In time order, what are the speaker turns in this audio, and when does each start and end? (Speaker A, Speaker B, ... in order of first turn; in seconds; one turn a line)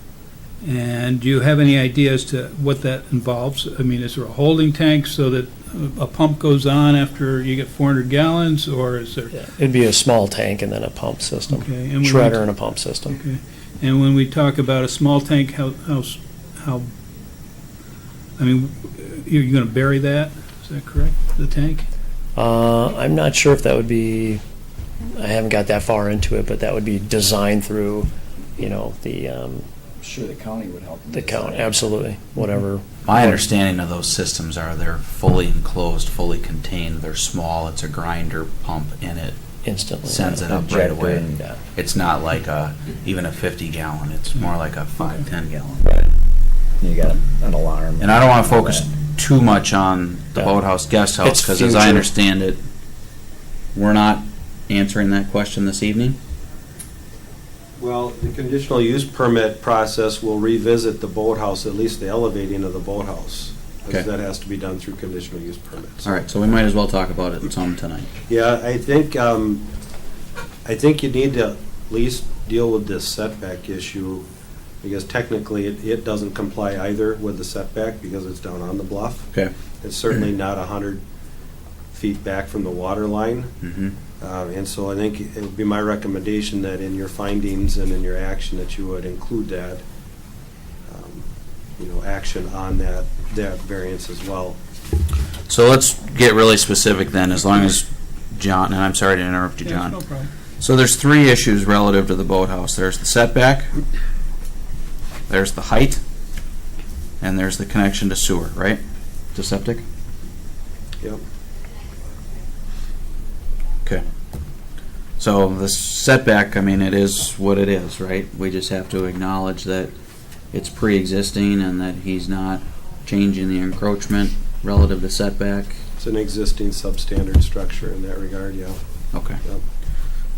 Speaker A: 0.6-9.4
Speaker B: 9.3-13.2
Speaker A: 11.5-12.4
Speaker A: 13.1-16.9
Speaker A: 18.4-21.9
Speaker B: 22.4-24.4
Speaker B: 25.1-29.6
Speaker C: 30.0-31.7
Speaker B: 31.1-33.4
Speaker D: 33.0-39.4
Speaker B: 39.6-40.6
Speaker D: 40.0-46.1
Speaker C: 40.5-41.2
Speaker C: 46.8-48.8
Speaker D: 48.0-52.6
Speaker B: 51.2-52.1
Speaker D: 53.7-56.2
Speaker E: 57.8-66.1
Speaker D: 66.0-68.1
Speaker E: 68.3-69.7
Speaker E: 70.6-74.2
Speaker E: 74.8-81.0
Speaker E: 81.9-83.5
Speaker D: 83.6-84.0
Speaker E: 84.2-89.8
Speaker E: 90.9-91.2
Speaker E: 91.8-94.6
Speaker D: 95.5-100.0
Speaker A: 99.6-100.3
Speaker D: 100.6-103.7
Speaker D: 105.3-106.0
Speaker D: 107.2-108.8
Speaker D: 109.3-109.8
Speaker D: 115.2-119.9
Speaker D: 120.5-125.8
Speaker E: 126.0-128.8
Speaker D: 129.1-129.4